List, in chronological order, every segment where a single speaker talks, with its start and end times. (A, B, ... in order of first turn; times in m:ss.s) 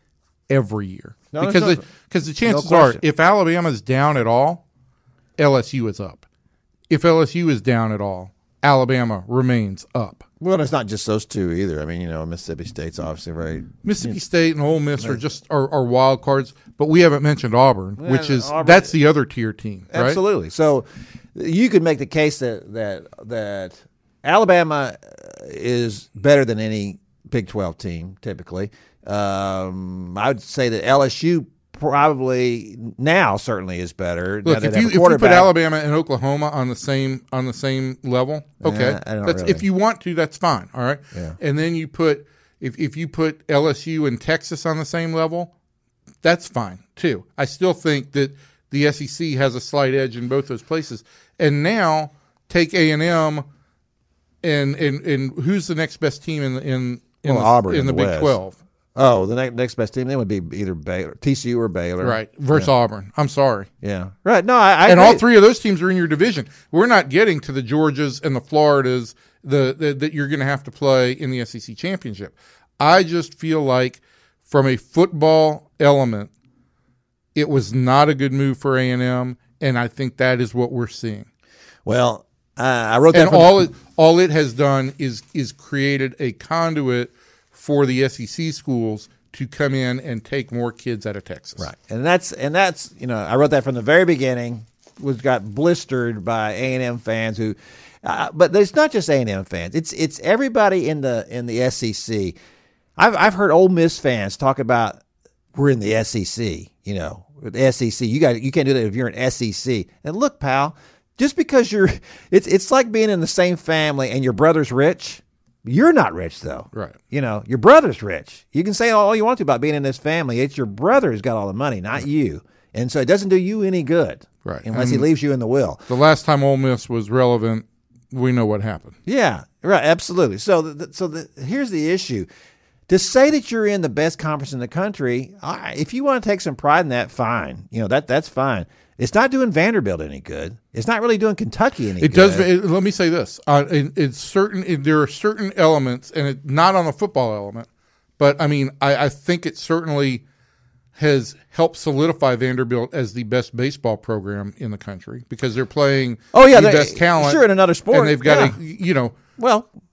0:00.5-0:04.6 A
0:01.3-0:01.8 B
0:02.4-0:03.0 B
0:05.4-0:06.2 A
0:06.9-0:10.2 A
0:10.4-0:14.2 B
0:13.8-0:20.2 A
0:18.0-0:18.9 B
0:19.9-0:35.5 B
0:34.4-0:45.5 A
0:38.6-0:39.6 B
0:41.1-0:41.4 B
0:46.2-0:53.4 A
0:54.4-0:58.6 A
0:57.2-0:58.4 B
0:58.9-1:02.7 B
1:02.0-1:03.7 A
1:03.8-1:05.2 B
1:04.8-1:16.3 A
1:17.3-1:21.3 A
1:21.8-1:23.6 B
1:23.1-1:31.7 A
1:31.6-1:42.3 B
1:43.0-1:45.0 B
1:45.5-2:05.8 B
1:56.7-1:57.0 A
2:04.4-2:05.0 A
2:05.9-2:08.9 A
2:09.0-2:12.3 B
2:12.9-2:22.5 B
2:22.0-2:27.7 A
2:28.2-2:30.2 A
2:31.0-2:39.2 A
2:36.3-2:38.6 B
2:39.4-2:39.7 B